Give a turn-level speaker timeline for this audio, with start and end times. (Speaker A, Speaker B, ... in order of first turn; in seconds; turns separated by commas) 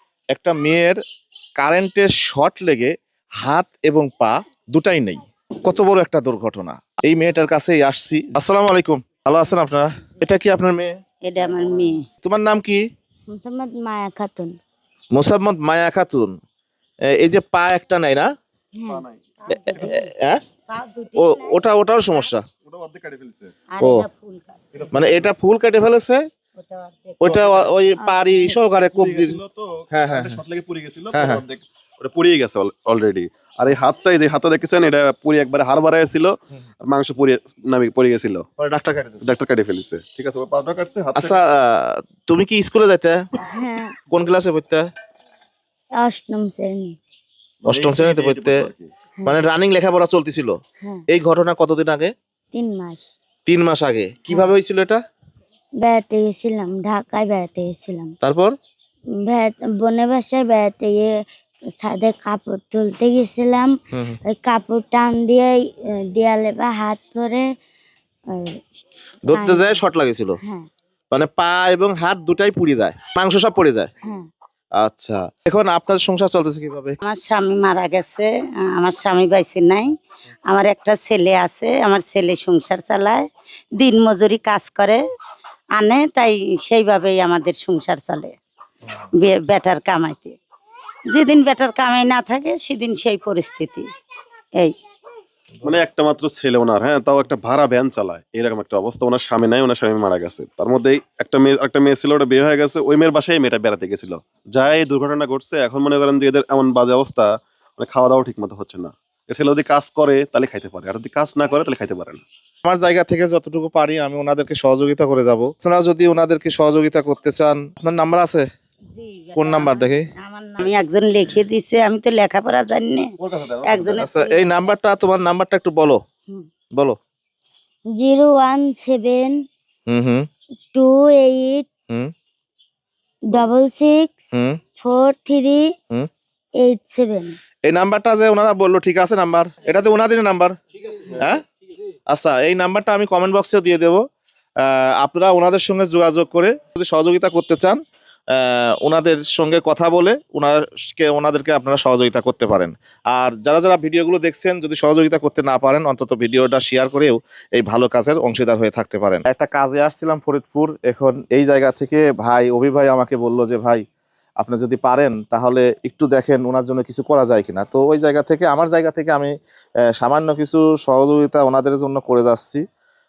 Speaker A: 0.3-1.0, Speaker A: 1.6-10.9, Speaker B: 11.2-12.0, Speaker C: 11.4-11.8, Speaker A: 12.2-12.8, Speaker D: 13.3-14.6, Speaker A: 15.1-16.4, Speaker A: 17.1-18.3, Speaker D: 18.7-19.0, Speaker C: 18.8-20.0, Speaker A: 19.5-20.4, Speaker B: 20.7-21.6, Speaker A: 21.1-22.4, Speaker C: 22.6-23.5, Speaker B: 23.7-24.9, Speaker A: 23.8-24.1, Speaker C: 24.7-25.3, Speaker A: 24.9-26.2, Speaker B: 26.6-27.2, Speaker A: 27.2-29.4, Speaker C: 27.2-27.8, Speaker D: 28.0-28.5, Speaker C: 28.8-38.4, Speaker A: 29.9-30.4, Speaker A: 31.1-31.4, Speaker A: 38.6-39.3, Speaker C: 39.2-41.4, Speaker A: 41.1-43.2, Speaker D: 43.4-44.0, Speaker A: 44.1-44.9, Speaker D: 46.0-47.0, Speaker C: 47.6-48.9, Speaker A: 47.6-48.6, Speaker A: 49.2-50.5, Speaker D: 50.8-51.0, Speaker A: 51.1-52.1, Speaker D: 52.5-53.1, Speaker A: 53.5-55.0, Speaker D: 55.8-58.1, Speaker A: 58.2-58.5, Speaker D: 59.2-61.1, Speaker D: 61.8-63.7, Speaker A: 63.9-64.2, Speaker D: 64.3-67.4, Speaker D: 68.3-68.6, Speaker A: 69.3-70.3, Speaker D: 69.3-69.8, Speaker A: 71.1-73.9, Speaker A: 74.8-77.0, Speaker B: 77.0-79.9, Speaker B: 80.5-83.2, Speaker B: 83.8-85.0, Speaker B: 85.8-88.3, Speaker B: 89.2-90.4, Speaker B: 91.1-93.9, Speaker C: 95.6-112.2, Speaker A: 112.7-118.5, Speaker B: 118.9-123.1, Speaker A: 119.3-120.1, Speaker C: 123.2-124.0, Speaker B: 123.6-124.5, Speaker A: 124.0-126.0, Speaker D: 127.9-129.3, Speaker A: 129.9-130.3, Speaker D: 130.7-131.7, Speaker D: 133.3-134.3, Speaker A: 134.3-134.6, Speaker D: 134.8-135.6, Speaker D: 136.6-137.4, Speaker A: 137.7-140.5, Speaker A: 141.1-141.4, Speaker A: 142.1-144.0, Speaker A: 144.6-147.8, Speaker A: 148.3-163.8, Speaker A: 164.4-169.3, Speaker A: 169.9-172.6